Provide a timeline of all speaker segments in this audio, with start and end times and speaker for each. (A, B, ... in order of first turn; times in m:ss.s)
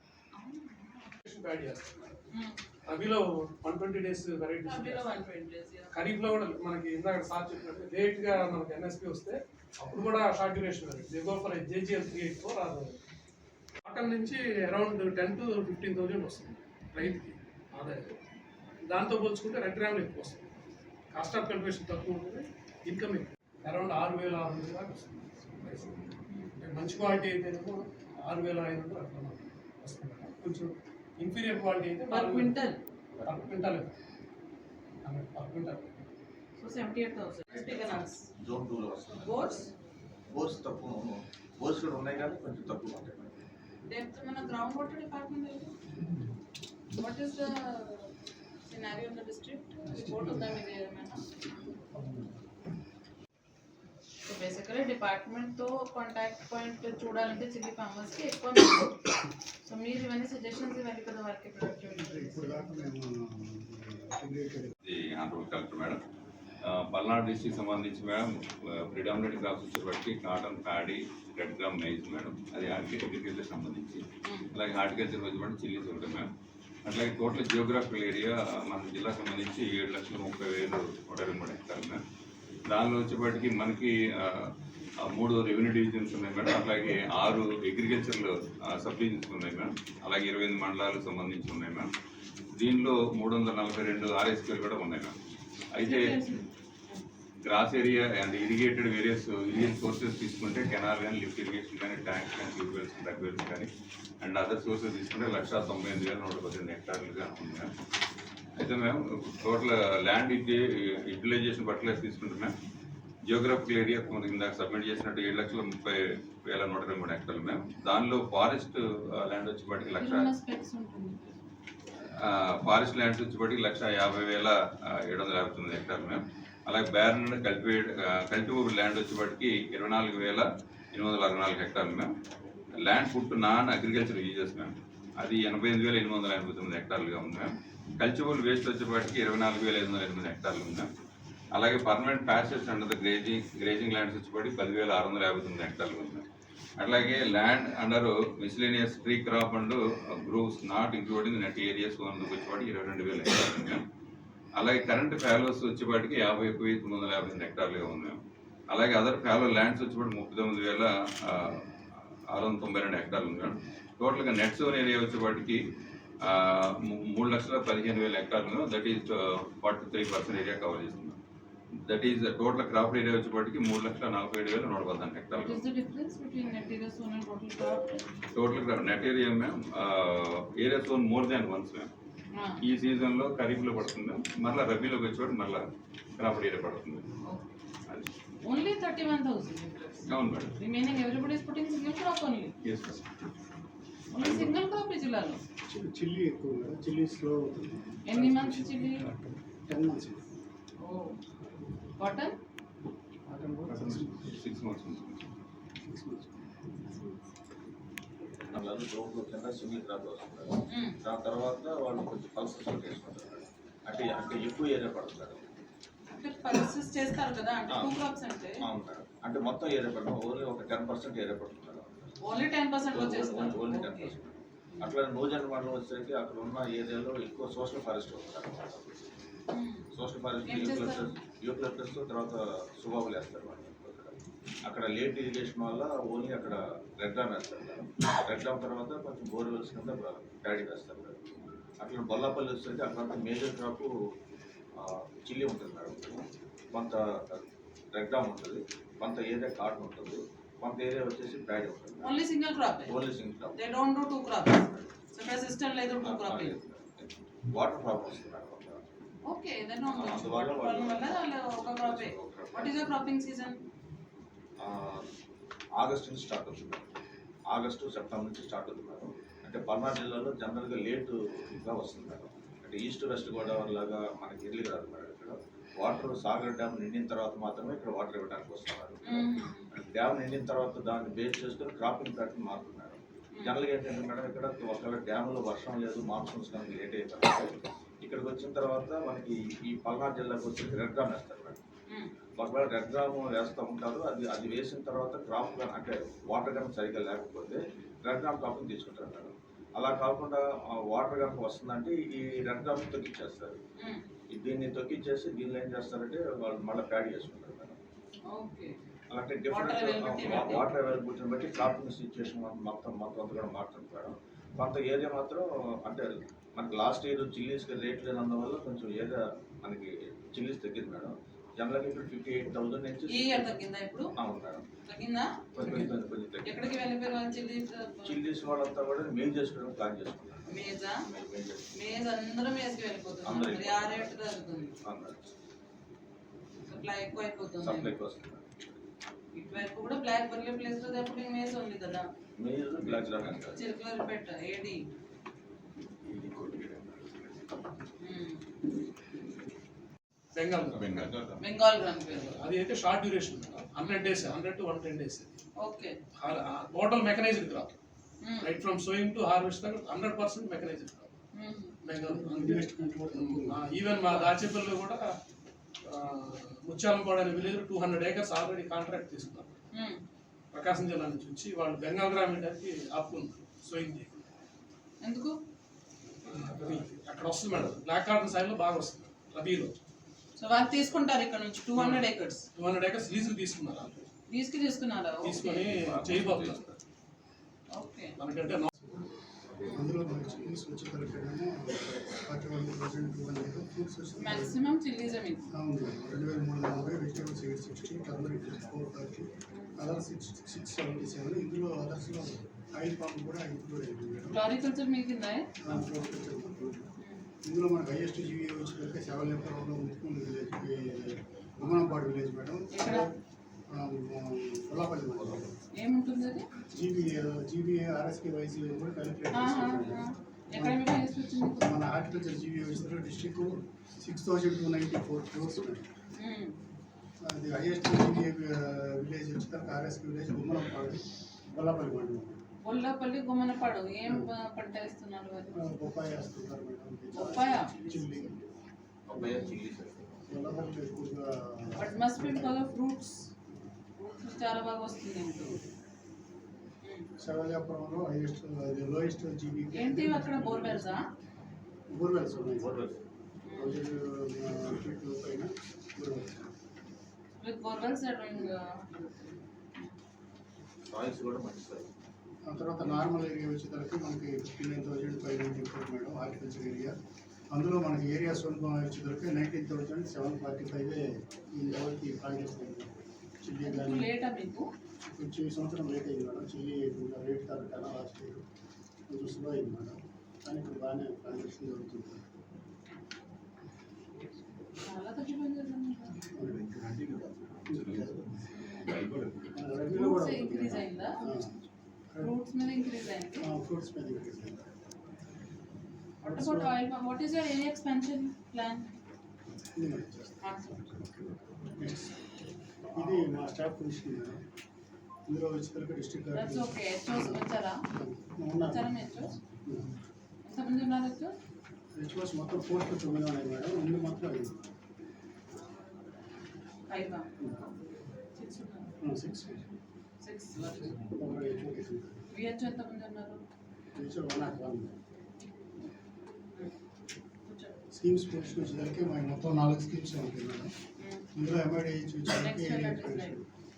0:00.4-0:01.2 A
0:01.2-0:02.2 B
0:02.3-0:02.6 A
0:02.9-0:05.2 B
0:04.6-0:06.2 A
0:05.9-0:13.0 B
0:13.8-0:18.1 B
0:18.9-0:20.4 B
0:21.1-0:26.0 B
0:26.6-0:32.6 B
0:32.1-0:32.8 A
0:33.3-0:33.9 B
0:35.0-0:35.9 B
0:36.6-0:38.2 A
0:37.5-0:39.6 C
0:39.2-0:39.7 A
0:40.3-0:43.4 C
0:43.9-0:45.7 A
0:47.0-0:48.1 A
0:48.7-0:51.2 A
0:49.9-0:50.5 D
0:51.9-0:52.3 D
0:54.3-0:58.9 A
0:59.7-1:02.8 A
1:01.8-1:04.8 D
1:04.8-1:06.0 E
1:06.7-1:16.3 E
1:14.3-1:14.5 A
1:16.8-1:22.0 E
1:22.7-1:24.5 E
1:25.1-1:31.9 E
1:32.6-1:35.2 E
1:35.8-1:36.2 E
1:35.8-1:37.0 A
1:37.4-1:47.7 E
1:48.6-1:52.5 E
1:53.2-2:00.3 E
2:00.0-2:01.3 A
2:02.2-2:12.1 E
2:12.8-2:20.9 E
2:21.5-2:26.2 E
2:26.8-2:33.8 E
2:34.6-2:38.2 E
2:38.7-2:41.6 E
2:42.3-2:45.6 E
2:46.2-2:51.2 E
2:51.9-2:55.6 E
2:55.3-2:57.9 A
2:58.3-3:01.9 E
3:02.4-3:02.6 A
3:02.6-3:05.6 E
3:06.2-3:07.0 E
3:08.4-3:10.1 A
3:10.1-3:10.5 E
3:10.6-3:12.5 A
3:12.6-3:13.3 E
3:14.1-3:15.4 A
3:14.2-3:14.6 E
3:15.7-3:20.2 D
3:18.1-3:19.1 A
3:20.8-3:21.2 A
3:22.0-3:22.4 A
3:23.3-3:24.4 D
3:23.7-3:25.2 E
3:25.8-3:27.2 D
3:28.5-3:35.5 C
3:30.7-3:31.0 A
3:36.2-3:38.5 A
3:37.7-3:38.0 C
3:38.6-3:42.1 C
3:42.3-3:44.1 A
3:42.9-3:49.2 C
3:49.5-3:49.8 A
3:49.9-3:54.2 C
3:50.4-3:51.1 A
3:54.7-4:01.2 C
4:01.8-4:03.9 C
4:04.8-4:06.2 C
4:06.7-4:07.4 C
4:07.9-4:12.2 C
4:12.0-4:13.0 A
4:12.8-4:13.6 C
4:13.6-4:16.6 A
4:16.0-4:18.8 C
4:19.3-4:23.6 A
4:19.9-4:23.1 C
4:24.6-4:25.1 C
4:25.8-4:26.9 C
4:27.5-4:47.5 C
4:39.1-4:39.7 A
4:48.0-4:51.6 C
4:52.4-5:03.6 C
5:04.3-5:07.8 C
5:08.3-5:08.8 A
5:09.1-5:23.6 C
5:09.5-5:10.7 A
5:23.1-5:24.1 A
5:24.2-5:24.6 C
5:24.9-5:25.9 A
5:25.6-5:26.7 C
5:26.5-5:28.2 A
5:28.1-5:31.6 C
5:30.5-5:31.0 A
5:31.8-5:34.8 A
5:33.2-5:34.2 C
5:34.8-5:35.3 C
5:36.6-5:37.9 A
5:37.6-5:38.6 C
5:39.4-5:42.1 A
5:42.4-5:43.6 C
5:43.6-5:44.8 A
5:46.1-5:46.9 C
5:48.0-5:48.4 A
5:50.3-5:51.0 B
5:50.6-5:51.4 C
5:51.4-5:52.5 A
5:52.2-5:55.4 B
5:53.8-5:54.1 A
5:55.6-5:56.0 A
5:56.2-5:57.8 B
5:58.2-5:58.6 A
5:58.4-6:01.1 B
6:01.3-6:01.8 A
6:01.8-6:05.0 B
6:02.0-6:03.6 D
6:05.8-6:09.5 B
6:09.7-6:10.0 A
6:10.5-6:14.2 B
6:15.0-6:15.4 A
6:16.2-6:19.8 B
6:20.4-6:22.5 A
6:21.8-6:24.0 B
6:24.3-6:25.7 A
6:25.2-6:26.8 B
6:25.8-6:26.6 E
6:27.8-6:28.2 A
6:28.2-6:28.7 B
6:29.6-6:29.9 A
6:29.7-6:34.6 D
6:34.2-6:35.4 A
6:35.5-6:44.4 D
6:44.3-6:45.5 A
6:45.6-6:46.9 D
6:47.5-6:53.2 D
6:52.8-6:53.1 A
6:53.7-6:55.5 D
6:55.8-6:56.5 A
6:56.7-7:00.0 D
6:59.3-7:01.7 A
7:00.6-7:00.8 D
7:01.6-7:05.9 D
7:06.2-7:06.6 A
7:07.2-7:12.4 D
7:12.6-7:15.5 A
7:15.5-7:18.4 D
7:17.2-7:18.3 A
7:19.1-7:20.2 C
7:20.3-7:22.6 D
7:21.8-7:23.3 A
7:24.0-7:25.6 A
7:27.2-7:31.0 D
7:29.7-7:31.1 A
7:31.9-7:32.7 D
7:32.6-7:33.0 C
7:33.5-7:33.8 A
7:33.6-7:36.5 D
7:37.4-7:38.8 A
7:40.9-7:41.9 C
7:42.4-7:47.0 D
7:47.5-7:52.9 D
7:53.4-7:54.1 D
7:53.6-7:54.7 A
7:55.1-7:58.4 D
7:59.1-8:02.3 D
8:04.9-8:06.2 A
8:06.3-8:08.4 D
8:07.7-8:08.1 E
8:08.6-8:08.9 A
8:08.9-8:09.5 E
8:09.5-8:11.6 D
8:09.9-8:11.2 A
8:12.2-8:13.5 A
8:13.4-8:14.7 D
8:16.2-8:16.8 D
8:16.2-8:18.9 A
8:19.8-8:22.2 D
8:20.4-8:20.9 A
8:22.9-8:24.4 D
8:25.3-8:28.9 D
8:26.4-8:27.8 A
8:28.7-8:29.4 A
8:29.6-8:30.0 D
8:30.4-8:31.4 A
8:32.0-8:34.6 D
8:36.9-8:37.3 A
8:37.4-8:37.6 D
8:38.4-8:38.9 A
8:39.0-8:39.7 D
8:40.2-8:41.0 A
8:41.0-8:42.2 D
8:42.3-8:43.4 A
8:44.0-8:44.9 D
8:47.5-8:47.8 A
8:47.9-8:50.7 D
8:51.3-8:53.5 D
8:52.4-8:53.4 A